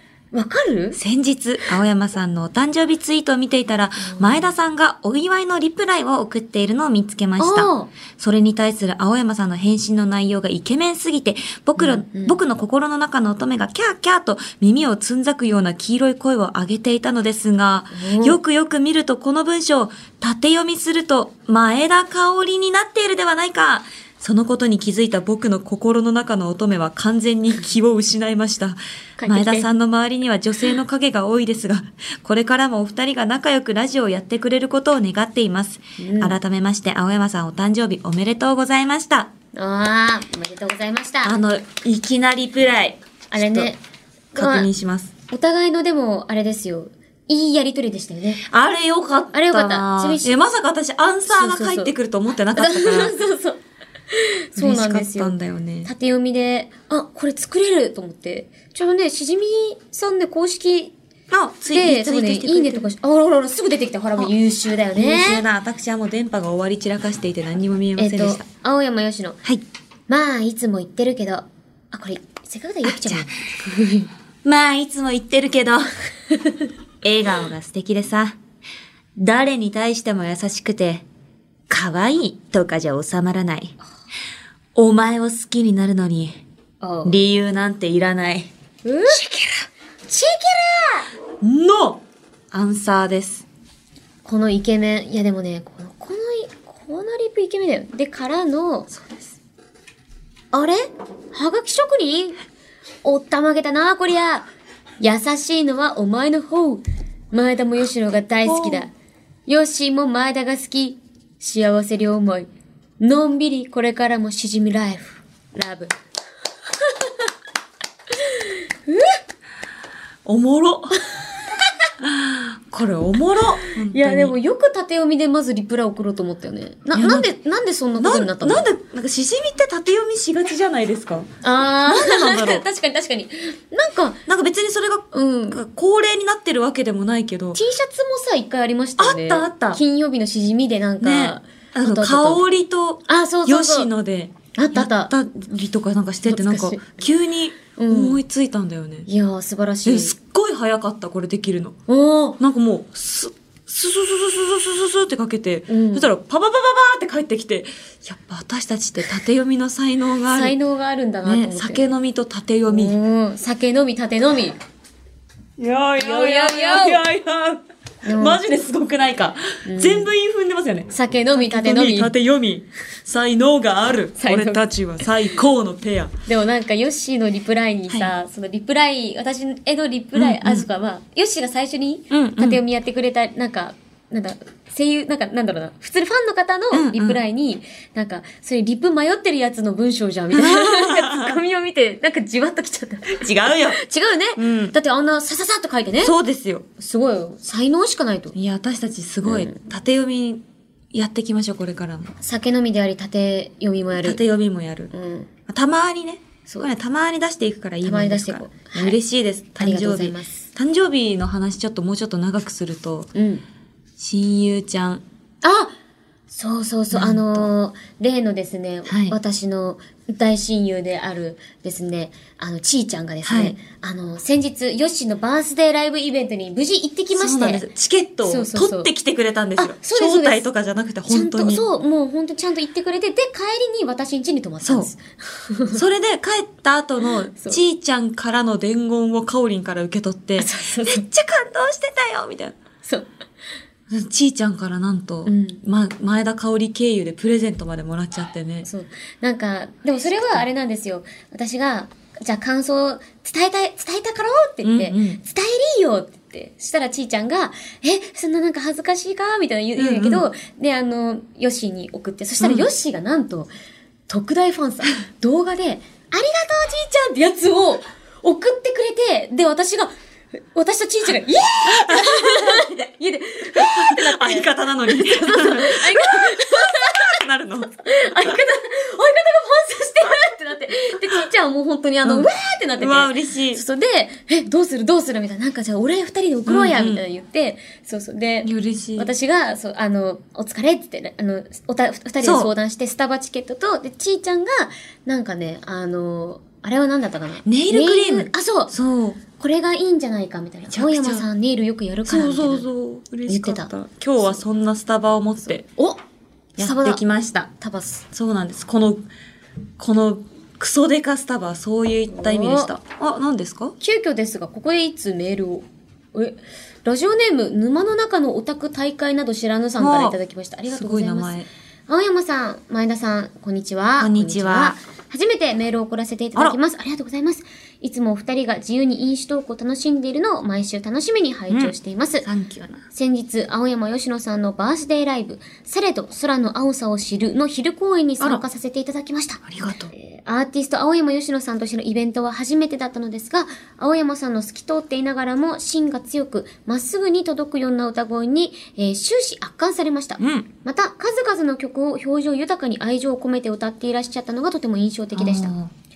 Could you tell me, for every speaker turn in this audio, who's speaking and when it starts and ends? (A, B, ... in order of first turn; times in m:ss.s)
0:00.3-0:01.0 A
0:01.0-0:39.3 B
0:04.0-0:04.5 A
0:07.4-0:07.9 A
0:11.8-0:12.4 A
0:17.9-0:18.4 A
0:29.2-0:29.7 A
0:36.0-0:36.4 A
0:39.5-0:41.4 A
0:41.2-0:43.7 B
0:43.3-0:43.8 A
0:44.4-0:44.7 A
0:44.4-0:45.1 B
0:45.3-0:48.4 A
0:48.4-0:53.2 B
0:49.3-0:50.4 A
0:51.3-0:51.9 A
0:52.6-1:00.9 A
0:54.6-0:55.9 B
1:01.3-1:02.9 B
1:01.7-1:05.4 A
1:04.9-1:08.4 B
1:08.0-1:09.4 A
1:10.1-1:14.1 A
1:12.9-1:13.4 B
1:14.4-1:15.9 B
1:17.0-1:18.4 B
1:19.2-1:21.1 B
1:21.7-1:23.8 B
1:24.8-1:26.4 B
1:26.8-1:27.2 A
1:27.0-1:28.5 B
1:28.8-1:29.2 A
1:29.1-1:29.7 B
1:30.1-1:31.1 A
1:31.4-1:33.5 B
1:34.2-1:38.9 A
1:40.5-1:42.4 A
1:43.0-1:44.5 A
1:45.0-1:48.9 A
1:48.4-1:48.9 B
1:49.5-1:56.0 A
1:56.8-1:57.3 A
1:58.1-1:59.2 A
2:00.2-2:01.0 B
2:02.0-2:04.4 B
2:03.6-2:08.7 A
2:06.9-2:07.3 B
2:08.0-2:11.3 B
2:11.4-2:14.2 A
2:11.9-2:12.6 B
2:14.3-2:17.6 B
2:15.1-2:15.6 A
2:17.6-2:22.4 A
2:19.0-2:19.8 B
2:21.0-2:29.1 B
2:23.1-2:23.9 A
2:24.5-2:25.5 A
2:26.2-2:27.0 A
2:27.8-2:28.2 A
2:29.1-2:30.1 A
2:29.8-2:31.8 B
2:31.9-2:32.4 A
2:32.4-2:40.6 B
2:35.7-2:36.1 A
2:40.3-2:41.9 A
2:41.2-2:43.0 B
2:42.7-2:44.6 A
2:45.6-2:56.1 B
2:46.0-2:47.0 A
2:48.0-2:48.4 A
2:49.7-2:50.1 A
2:50.9-2:52.1 A
2:54.2-2:54.6 A
2:56.3-3:16.1 A
3:00.2-3:00.7 B
3:02.1-3:02.6 B
3:06.7-3:07.2 B
3:10.3-3:11.4 B
3:13.1-3:13.8 B
3:14.4-3:14.8 B
3:16.0-3:16.7 B
3:16.8-3:18.4 A
3:18.4-3:22.2 B
3:19.2-3:19.6 A
3:22.2-3:24.2 A
3:24.0-3:24.9 B
3:24.9-3:25.3 A
3:25.5-3:33.1 B
3:27.8-3:29.0 A
3:29.6-3:30.5 A
3:33.1-3:33.5 A
3:34.0-3:35.0 B
3:35.4-3:35.7 A
3:36.3-3:47.6 A
3:36.9-3:37.5 B
3:38.9-3:39.2 B
3:43.2-3:43.6 B
3:47.1-3:51.6 B
3:48.2-3:48.9 A
3:49.6-3:50.5 A
3:51.1-3:55.8 A
3:54.6-3:54.9 B
3:55.7-4:02.6 B
3:57.0-3:57.6 A
4:00.4-4:01.0 A
4:02.8-4:03.1 A
4:03.9-4:08.7 B
4:05.2-4:05.6 A
4:08.7-4:23.5 A
4:10.2-4:10.4 B
4:14.6-4:15.2 B
4:19.8-4:20.3 B
4:22.4-4:22.7 B
4:24.1-4:37.2 A
4:31.7-4:32.6 B
4:33.6-4:37.8 B
4:37.7-4:58.7 A
4:42.0-4:43.6 B
4:46.5-4:47.0 B
4:48.4-4:49.1 B
4:52.2-4:52.5 B
4:57.5-4:59.2 B
4:59.4-5:02.7 A
5:00.7-5:01.3 B
5:02.1-5:05.6 B
5:03.3-5:04.4 A
5:05.5-5:06.0 A
5:06.6-5:07.0 A
5:06.6-5:07.5 B
5:07.6-5:08.1 A
5:08.1-5:09.0 B
5:09.8-5:13.8 B
5:12.1-5:12.7 A
5:13.8-5:32.3 A
5:19.8-5:20.2 B
5:20.7-5:21.5 B
5:24.0-5:24.8 B
5:31.5-5:32.9 B
5:32.9-5:55.5 A
5:39.4-5:39.9 B
5:50.2-5:50.5 B
5:55.2-5:55.7 B